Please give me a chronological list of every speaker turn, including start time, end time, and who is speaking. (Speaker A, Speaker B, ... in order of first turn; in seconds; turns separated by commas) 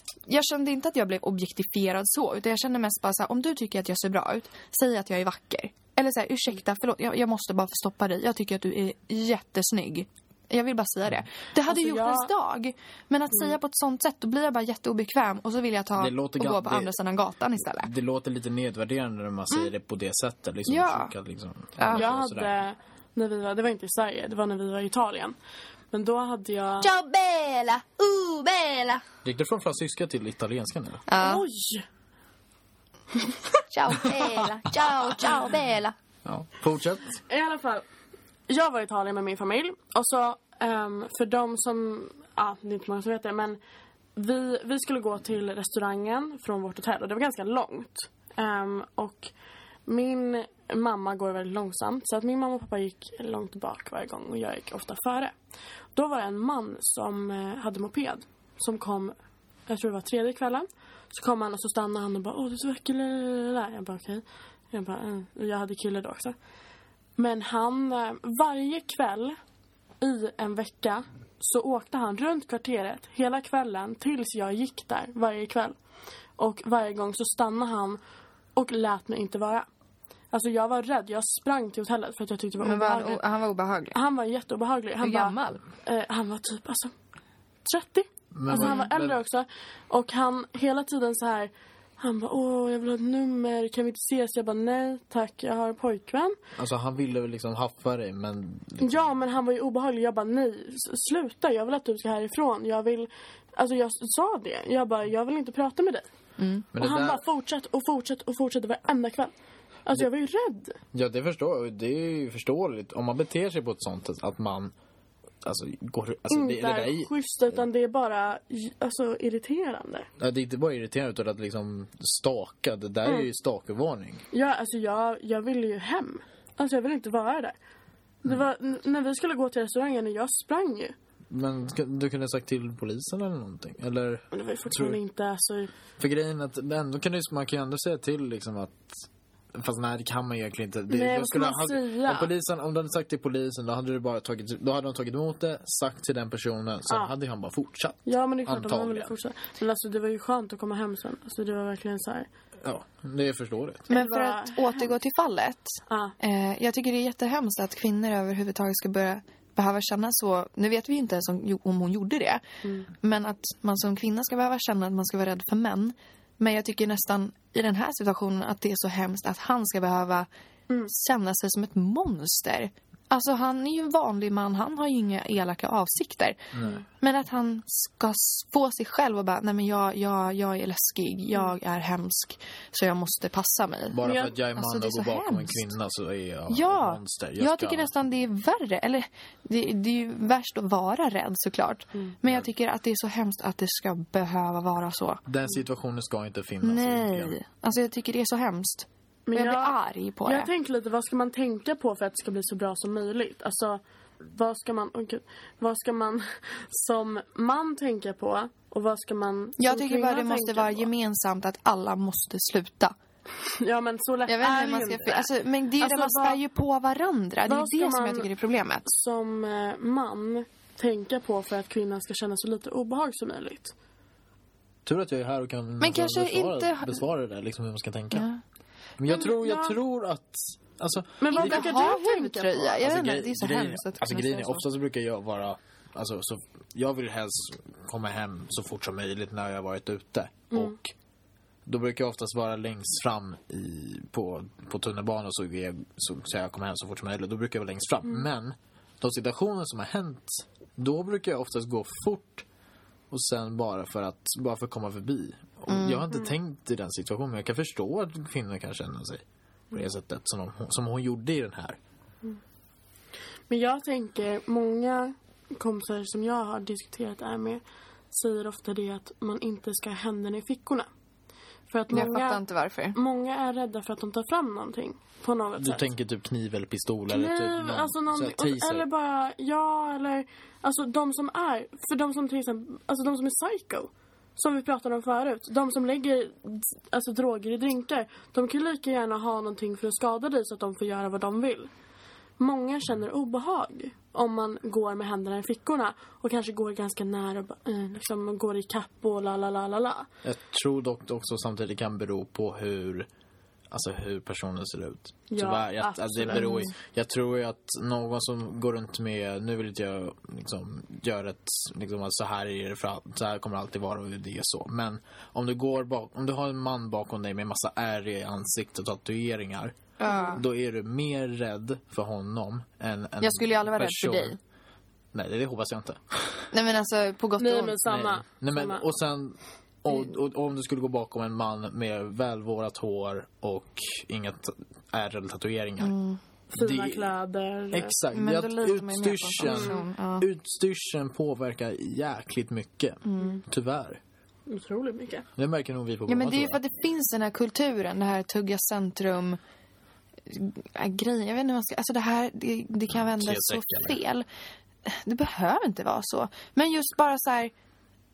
Speaker A: 0.3-17.9, Speaker B: 11.7-12.3, Speaker C: 16.0-16.9, Speaker C: 17.8-22.5, Speaker A: 20.7-21.1, Speaker A: 21.8-22.1, Speaker B: 21.9-25.4, Speaker B: 25.9-26.9, Speaker A: 26.8-29.0, Speaker C: 29.2-31.0, Speaker A: 31.1-31.4, Speaker B: 31.2-31.9, Speaker A: 33.7-35.9, Speaker C: 36.2-37.2, Speaker B: 37.3-37.9, Speaker B: 38.5-43.6, Speaker B: 44.2-49.3, Speaker B: 49.9-55.4, Speaker B: 56.0-59.1, Speaker B: 59.7-66.4, Speaker B: 67.2-69.4, Speaker B: 70.0-75.8, Speaker B: 76.4-78.0, Speaker B: 78.6-79.7, Speaker B: 80.3-83.2, Speaker A: 82.6-84.0, Speaker B: 83.9-86.9, Speaker A: 85.0-85.6, Speaker B: 87.6-96.4, Speaker C: 88.3-89.2, Speaker C: 96.6-99.1, Speaker B: 98.8-106.1, Speaker A: 106.4-106.7, Speaker C: 106.7-107.2, Speaker B: 106.8-109.3, Speaker B: 109.8-110.8, Speaker C: 110.9-114.7, Speaker C: 115.4-117.6, Speaker B: 116.3-120.1, Speaker C: 120.2-124.2, Speaker B: 124.3-127.6, Speaker B: 128.2-130.9, Speaker C: 131.3-135.0, Speaker B: 134.3-135.7, Speaker C: 136.0-149.1, Speaker B: 140.9-142.3, Speaker B: 148.1-152.3, Speaker C: 152.6-153.9, Speaker B: 153.9-154.9, Speaker A: 153.9-162.4, Speaker B: 155.9-156.1, Speaker A: 163.0-170.3, Speaker A: 170.9-185.7, Speaker C: 176.5-176.8, Speaker C: 183.9-187.9, Speaker B: 184.0-184.3, Speaker A: 186.5-195.2, Speaker C: 195.3-197.4, Speaker A: 196.6-200.5, Speaker B: 199.3-210.9, Speaker A: 209.6-212.9, Speaker B: 213.5-215.3, Speaker A: 214.3-218.8, Speaker B: 215.8-216.4, Speaker B: 217.5-218.3, Speaker B: 218.8-223.7, Speaker C: 224.8-228.3, Speaker A: 225.8-227.0, Speaker A: 228.1-228.4, Speaker C: 229.0-231.7, Speaker B: 229.1-229.8, Speaker B: 231.2-232.8, Speaker A: 231.3-234.7, Speaker C: 232.8-240.9, Speaker B: 240.5-240.8, Speaker C: 241.7-252.5, Speaker C: 253.1-261.8, Speaker A: 255.7-256.0, Speaker B: 263.5-270.9, Speaker B: 271.7-272.4, Speaker A: 271.9-273.0, Speaker B: 272.9-275.9, Speaker C: 275.6-278.9, Speaker B: 277.1-291.7, Speaker B: 292.4-300.1, Speaker C: 300.2-303.1, Speaker C: 303.7-319.8, Speaker B: 305.3-306.7, Speaker A: 320.0-320.4, Speaker B: 320.0-320.4, Speaker C: 320.4-324.4, Speaker A: 323.2-324.4, Speaker C: 325.1-326.5, Speaker A: 326.5-327.8, Speaker B: 327.4-328.9, Speaker C: 327.9-335.9, Speaker A: 335.8-336.2, Speaker B: 336.5-337.9, Speaker C: 336.6-337.1, Speaker C: 337.7-344.0, Speaker A: 338.1-340.3, Speaker B: 339.4-339.8, Speaker A: 343.0-343.4, Speaker B: 344.5-345.3, Speaker C: 345.4-346.6, Speaker A: 346.1-349.4, Speaker A: 350.3-354.3, Speaker C: 352.9-354.0, Speaker A: 354.9-357.5